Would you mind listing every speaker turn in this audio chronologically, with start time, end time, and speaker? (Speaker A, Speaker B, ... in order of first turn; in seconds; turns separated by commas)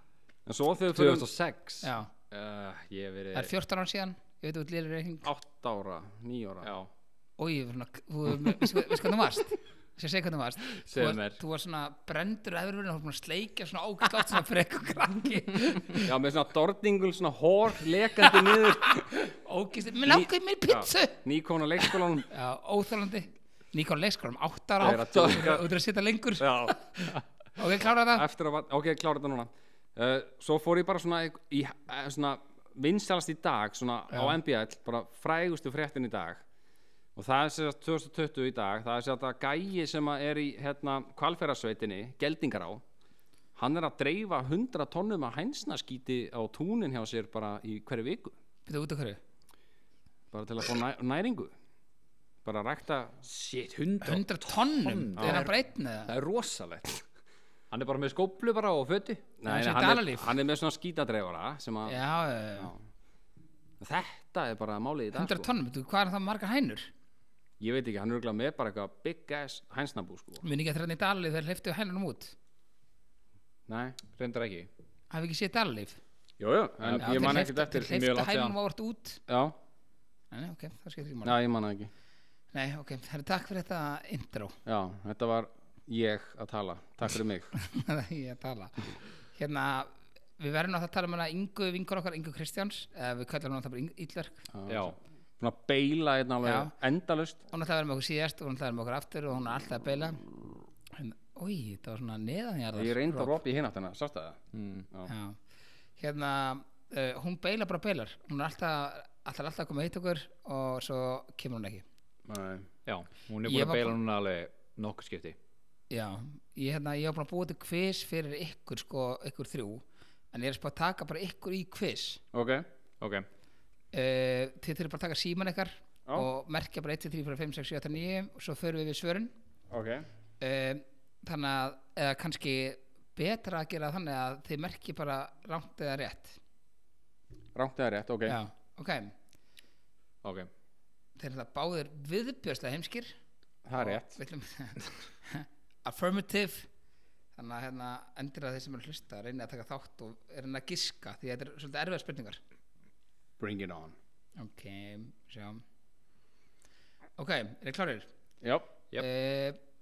Speaker A: 0.5-1.3, Speaker B: 0.9-3.5, Speaker C: 1.8-2.1, Speaker C: 3.3-5.3, Speaker A: 5.2-6.7, Speaker B: 6.6-6.9, Speaker C: 7.4-16.1, Speaker B: 10.8-11.4, Speaker A: 15.9-19.1, Speaker C: 18.3-21.2, Speaker A: 20.1-22.3, Speaker C: 22.3-28.2, Speaker A: 24.8-25.7, Speaker B: 24.8-25.6, Speaker A: 26.4-26.8, Speaker A: 28.1-36.4, Speaker C: 34.1-34.4, Speaker A: 37.1-42.8, Speaker A: 43.5-48.3, Speaker C: 48.6-49.2, Speaker A: 50.3-51.5, Speaker A: 52.4-53.2, Speaker B: 53.2-55.5, Speaker C: 54.0-56.1, Speaker A: 55.2-55.5, Speaker B: 56.1-57.0, Speaker B: 57.7-59.2, Speaker A: 59.4-62.0, Speaker C: 59.5-60.4, Speaker C: 61.9-62.7, Speaker A: 63.8-65.5, Speaker C: 65.1-66.9, Speaker A: 67.6-70.4, Speaker C: 70.4-72.3, Speaker A: 73.7-74.0, Speaker B: 74.1-74.7, Speaker C: 75.1-76.0, Speaker A: 76.4-77.9, Speaker B: 76.8-78.5, Speaker C: 77.0-79.2, Speaker A: 79.3-79.5, Speaker C: 80.3-81.4, Speaker A: 81.2-81.9, Speaker C: 82.5-84.5, Speaker A: 84.7-87.5, Speaker C: 87.5-94.5, Speaker A: 94.5-97.4, Speaker B: 94.7-95.0, Speaker C: 96.4-96.7, Speaker C: 97.5-100.2, Speaker C: 100.9-103.4, Speaker A: 102.7-104.4, Speaker B: 104.5-104.9, Speaker C: 105.1-105.4, Speaker C: 106.0-111.8, Speaker A: 112.3-112.7, Speaker B: 112.8-115.4, Speaker C: 113.4-114.0, Speaker C: 115.9-122.2, Speaker A: 122.3-122.7, Speaker B: 123.0-123.2, Speaker C: 123.9-129.3, Speaker A: 129.7-130.1, Speaker C: 130.4-136.4, Speaker A: 137.5-138.4, Speaker C: 138.3-139.1, Speaker B: 140.2-140.5, Speaker C: 141.2-143.1, Speaker A: 143.6-144.2, Speaker C: 143.8-146.7, Speaker C: 147.3-152.4, Speaker A: 153.4-153.9, Speaker C: 154.4-155.6, Speaker C: 157.2-158.1, Speaker A: 158.4-158.7, Speaker C: 159.0-159.6